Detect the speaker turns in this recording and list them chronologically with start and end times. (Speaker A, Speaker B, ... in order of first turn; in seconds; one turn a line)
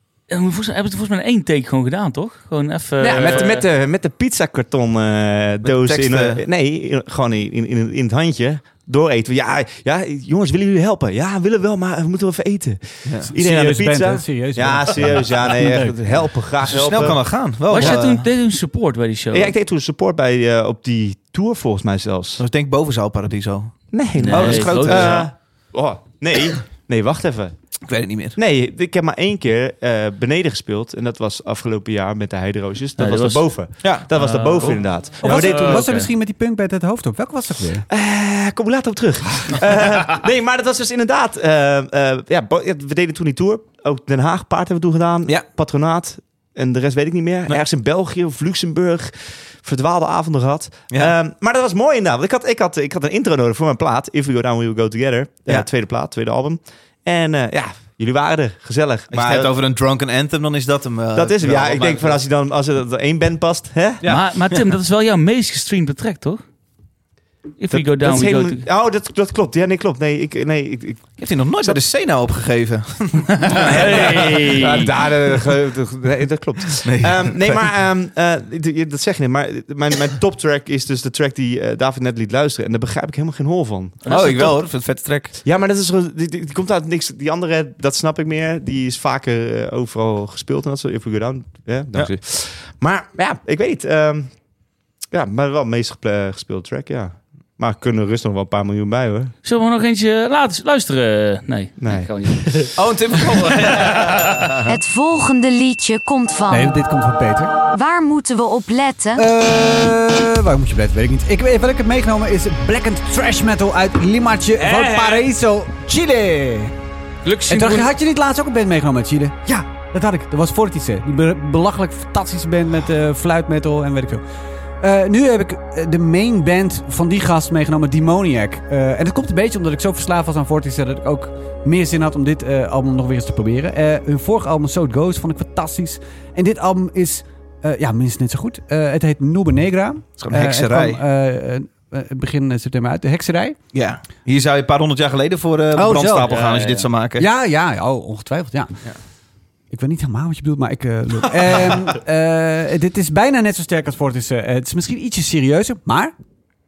Speaker A: 0.3-3.7
Speaker B: 3.0-18.0
Speaker C: 5.6-6.4
Speaker D: 13.3-16.1
Speaker C: 16.7-18.3
Speaker A: 17.7-19.5
Speaker B: 19.3-22.4
Speaker C: 22.4-25.3
Speaker B: 23.9-27.6
Speaker A: 24.2-25.3
Speaker C: 27.9-28.4
Speaker B: 28.4-36.0
Speaker A: 33.0-33.5
Speaker C: 33.8-34.1
Speaker A: 34.1-36.1
Speaker D: 35.2-37.9
Speaker B: 37.9-59.5
Speaker C: 59.1-62.2
Speaker B: 61.1-64.0
Speaker C: 64.0-64.6
Speaker A: 64.0-66.4
Speaker A: 67.6-68.7
Speaker B: 67.7-71.8
Speaker C: 71.2-74.6
Speaker A: 73.4-74.9
Speaker B: 73.6-84.5
Speaker C: 76.8-77.7
Speaker A: 84.0-84.6
Speaker C: 84.1-85.4
Speaker B: 85.4-94.3
Speaker B: 95.1-99.3
Speaker A: 99.4-102.7
Speaker B: 101.8-102.7
Speaker C: 102.8-104.8
Speaker A: 103.7-104.2
Speaker E: 104.7-106.8
Speaker D: 106.5-107.5
Speaker E: 107.7-109.3
Speaker D: 109.2-116.7
Speaker A: 114.6-115.3
Speaker A: 117.2-117.9
Speaker D: 117.5-124.2
Speaker D: 124.8-143.6
Speaker C: 140.2-141.0
Speaker C: 143.7-147.3
Speaker D: 145.7-146.3
Speaker A: 146.2-146.9
Speaker D: 147.2-148.8
Speaker D: 149.7-156.1